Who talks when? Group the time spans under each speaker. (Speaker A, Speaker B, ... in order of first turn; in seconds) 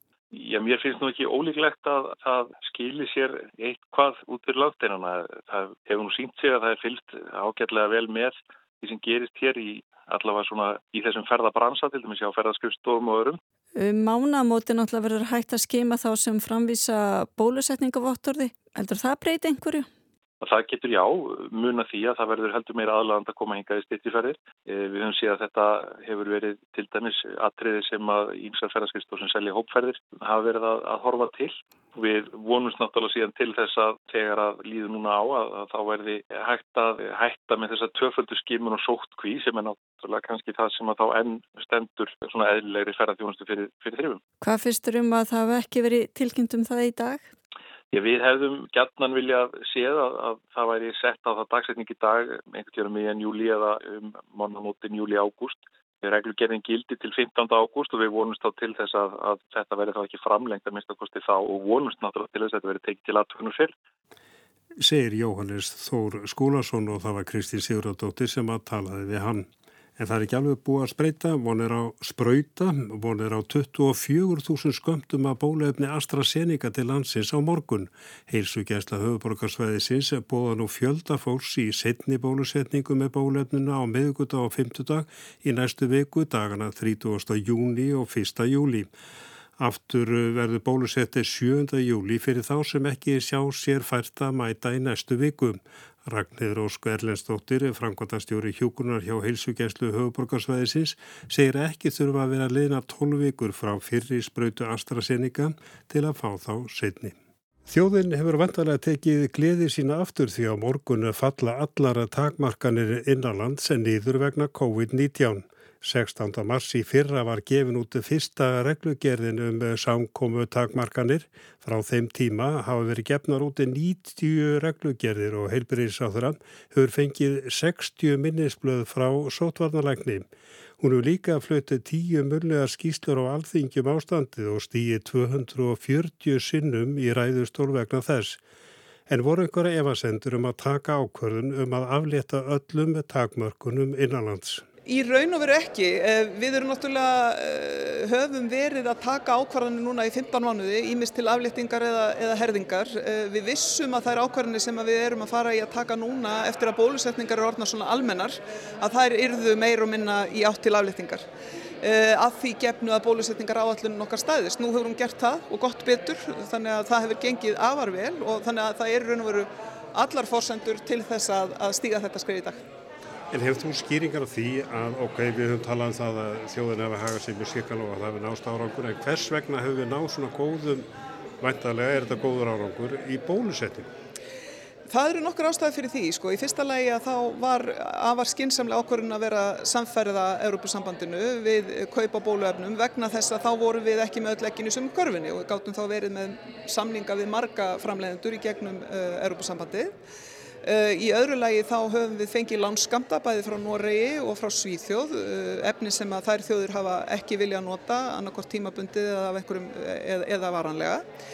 Speaker A: 0.3-13.4, 20.4-44.2, 47.9-63.7
Speaker B: 13.8-19.9, 44.4-47.3
Speaker C: 64.8-88.9, 89.6-107.1, 107.7-130.3, 130.8-138.4, 139.1-144.6, 173.3-180.9, 181.4-183.9
Speaker D: 144.8-161.2, 161.8-172.6, 184.9-200.0, 200.6-211.0